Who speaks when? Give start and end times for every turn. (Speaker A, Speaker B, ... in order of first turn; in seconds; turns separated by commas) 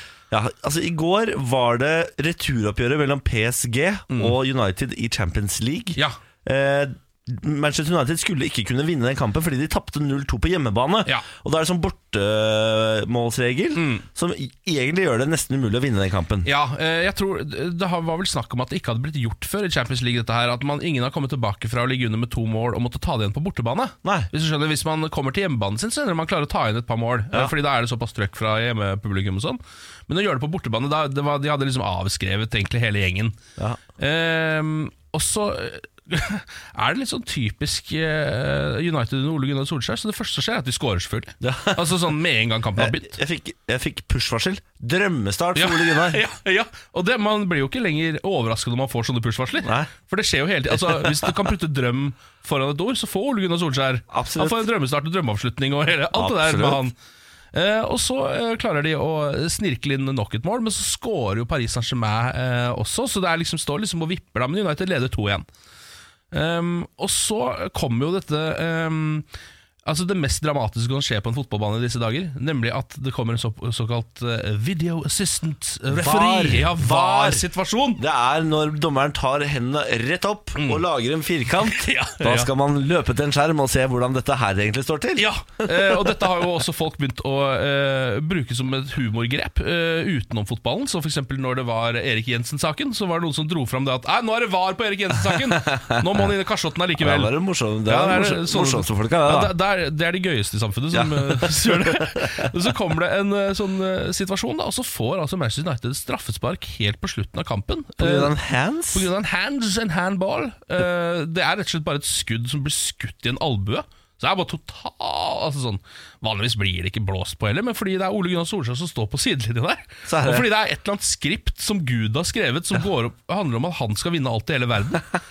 Speaker A: 0.3-16.5, Speaker B: 4.1-4.3, Speaker B: 13.7-14.0, Speaker B: 16.4-33.4, Speaker A: 24.0-24.3, Speaker B: 34.0-43.1, Speaker A: 41.4-42.1, Speaker A: 42.8-46.2, Speaker B: 45.5-56.9, Speaker A: 49.6-49.9, Speaker A: 50.7-51.4, Speaker A: 54.1-54.7, Speaker A: 56.1-56.8, Speaker B: 57.5-65.4, Speaker B: 66.3-69.2, Speaker B: 69.8-78.0, Speaker A: 75.9-86.2, Speaker B: 80.5-80.8, Speaker B: 81.6-82.5, Speaker B: 85.2-97.3, Speaker A: 95.2-96.3, Speaker A: 97.0-99.5, Speaker B: 97.9-108.3, Speaker A: 100.9-102.5, Speaker A: 108.0-109.1, Speaker B: 108.9-125.1, Speaker A: 120.1-120.5